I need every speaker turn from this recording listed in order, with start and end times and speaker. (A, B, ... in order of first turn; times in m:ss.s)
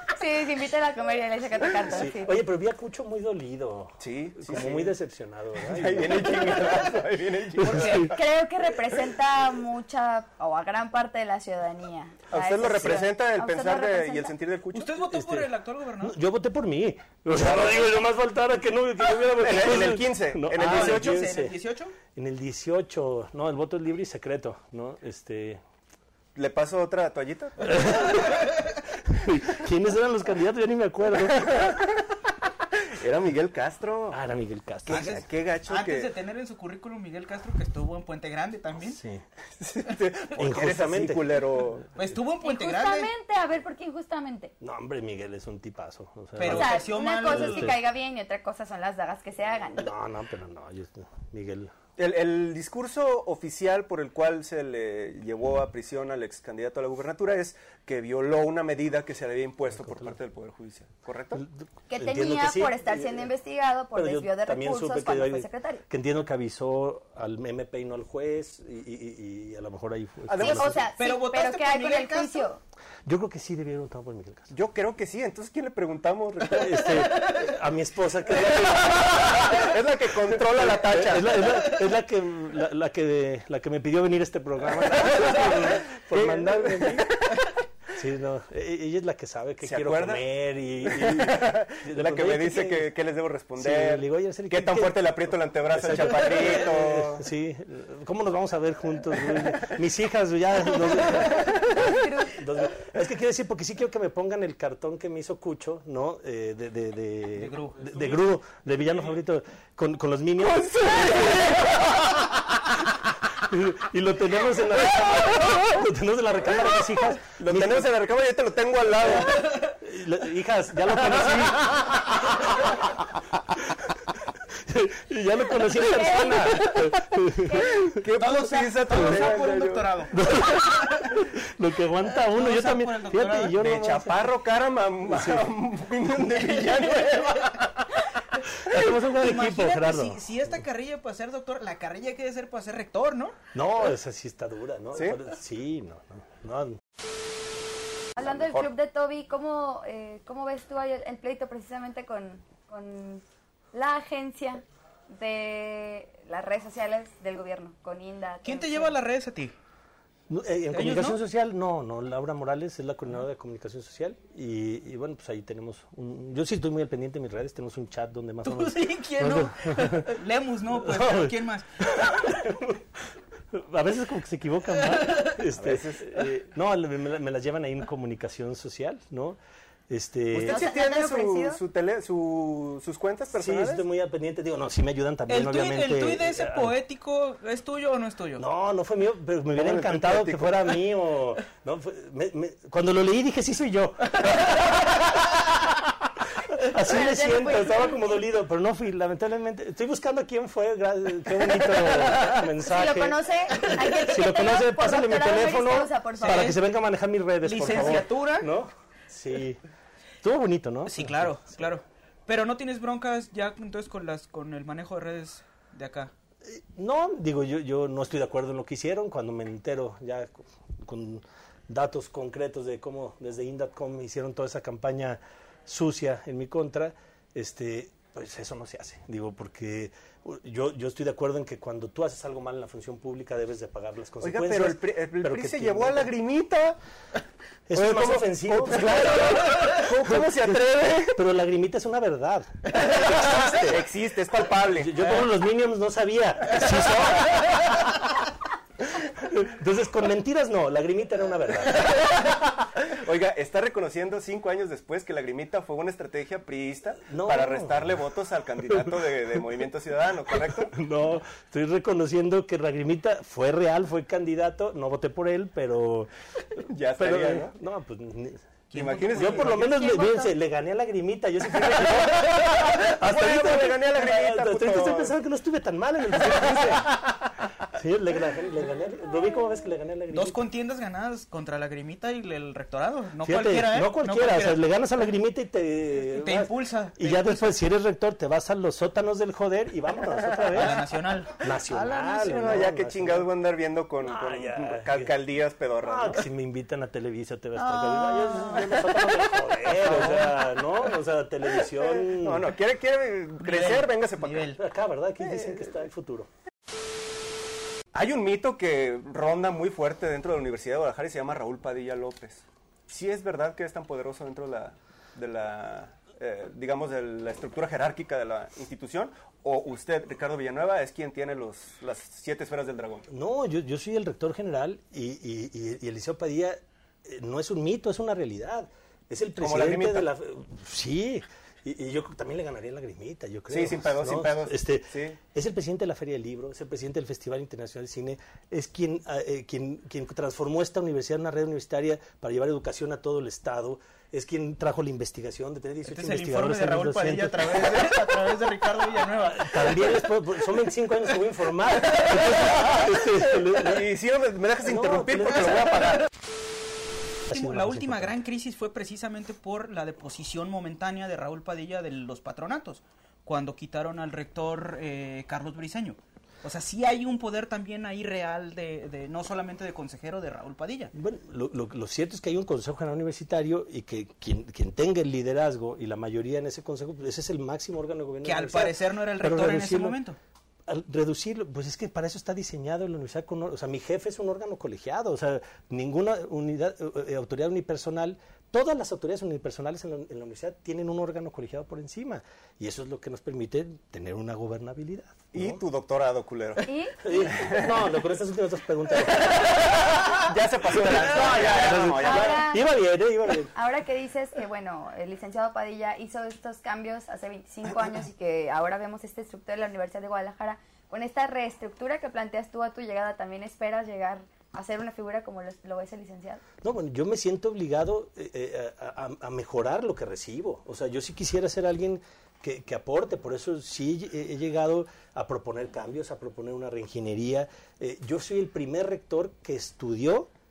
0:00.1-0:02.4 A
0:01.8-0:06.6 B
0:04.0-0:05.0 C
0:05.6-0:08.1 C
0:07.6-0:08.2 D
0:07.6-0:08.1 B
0:08.0-0:14.3 A
0:12.3-0:14.9 C
0:12.6-0:13.0 B
0:14.7-0:16.2 D
0:15.1-0:21.6 B
0:17.4-0:17.8 C
0:19.3-0:21.3 C
0:20.6-0:22.0 D
0:22.2-0:25.6 B
0:26.4-0:28.2 C
0:27.6-0:31.7 B
0:32.9-0:34.2 C
0:34.1-0:35.2 B
0:34.9-0:36.1 C
0:34.9-0:39.0 D
0:38.8-0:39.2 B
0:39.6-0:41.8 C
0:40.4-0:41.4 B
0:42.0-0:43.1 D
0:42.4-0:44.5 A
0:44.6-0:47.8 B
0:46.4-0:47.7 D
0:46.4-0:49.9 A
0:49.8-0:51.7 B
0:52.0-1:01.4 C
0:59.8-1:00.1 B
1:01.4-1:03.3 B
1:01.9-1:05.8 A
1:03.9-1:10.9 B
1:10.3-1:10.8 C
1:10.4-1:12.6 A
1:11.0-1:12.5 D
1:13.1-1:14.5 B
1:14.5-1:17.1 C
1:16.5-1:19.7 B
1:18.9-1:21.5 C
1:20.3-1:27.1 B
1:26.1-1:27.0 C
1:27.9-1:32.9 B
1:29.6-1:30.2 C
1:30.8-1:37.2 C
1:33.6-1:35.0 B
1:35.7-1:52.3 B
1:41.3-1:41.9 C
1:41.8-1:42.3 A
1:47.4-1:47.9 D
1:50.5-1:51.8 C
1:53.3-1:57.9 B
1:57.4-1:59.4 C
1:59.8-2:02.9 B
2:03.7-2:08.0 B
2:05.8-2:06.6 A
2:07.8-2:09.9 C
2:08.2-2:11.2 D
2:08.9-2:09.3 B
2:10.1-2:14.3 B
2:12.3-2:13.6 D
2:13.6-2:17.7 C
2:15.1-2:15.5 B
2:18.6-2:20.2 B
2:19.0-2:23.4 D
2:23.5-2:26.8 B
2:28.2-2:39.0 A
2:38.4-2:39.5 D
2:40.3-2:50.1 B
2:40.7-2:41.2 D
2:48.4-2:51.7 D
2:50.8-2:59.4 B
2:55.0-2:55.4 D
2:55.6-2:56.3 C
2:59.9-3:00.7 B
3:00.3-3:03.8 C
3:00.4-3:01.6 A
3:03.3-3:06.8 B
3:05.3-3:08.4 D
3:08.4-3:29.6 B
3:09.5-3:10.7 C
3:16.8-3:18.2 A
3:21.8-3:22.3 D
3:22.6-3:26.6 A
3:26.2-3:26.6 D
3:27.4-3:28.5 D
3:30.2-3:31.4 B
3:30.9-3:36.1 D
3:36.4-3:56.1 B
3:54.2-3:56.8 C
3:57.7-3:59.4 B
3:57.8-4:01.2 C
3:59.9-4:00.6 B
4:01.1-4:03.9 B
4:03.6-4:05.2 C
4:04.7-4:07.9 B
4:09.0-4:12.0 B
4:12.8-4:20.7 C
4:17.0-4:18.0 B
4:18.7-4:19.0 B
4:20.7-4:28.4 B
4:26.7-4:27.5 C
4:28.7-4:29.6 D
4:28.7-4:29.6 C
4:29.1-4:40.4 B
4:29.6-4:30.3 A
4:32.7-4:35.1 C
4:36.2-4:36.9 C
4:40.1-4:44.6 D
4:43.2-4:50.8 B
4:46.2-4:47.6 D
4:50.5-4:51.3 D
4:51.4-4:53.3 B
4:51.8-4:56.2 C
4:54.0-4:55.1 B
4:55.8-5:02.5 B
4:59.9-5:00.4 D
5:01.8-5:04.6 C
5:03.4-5:04.6 D
5:04.5-5:06.3 B
5:05.3-5:05.7 C
5:07.9-5:23.1 C
5:23.1-5:47.8 B
5:29.4-5:30.1 C
5:33.5-5:35.2 C
5:45.9-5:49.9 D
5:49.3-5:53.9 B
5:53.5-5:56.1 C
5:54.6-5:55.6 B
5:57.3-5:58.2 B
5:57.3-6:10.9 D
6:10.9-6:20.0 B
6:18.2-6:20.2 D
6:20.7-6:35.6 B
6:35.3-6:37.7 C
6:36.6-6:37.3 A
6:37.0-6:40.2 B
6:40.0-6:42.4 C
6:40.8-6:43.5 B
6:41.9-6:42.6 A
6:43.5-6:56.4 A
6:56.6-7:10.3 B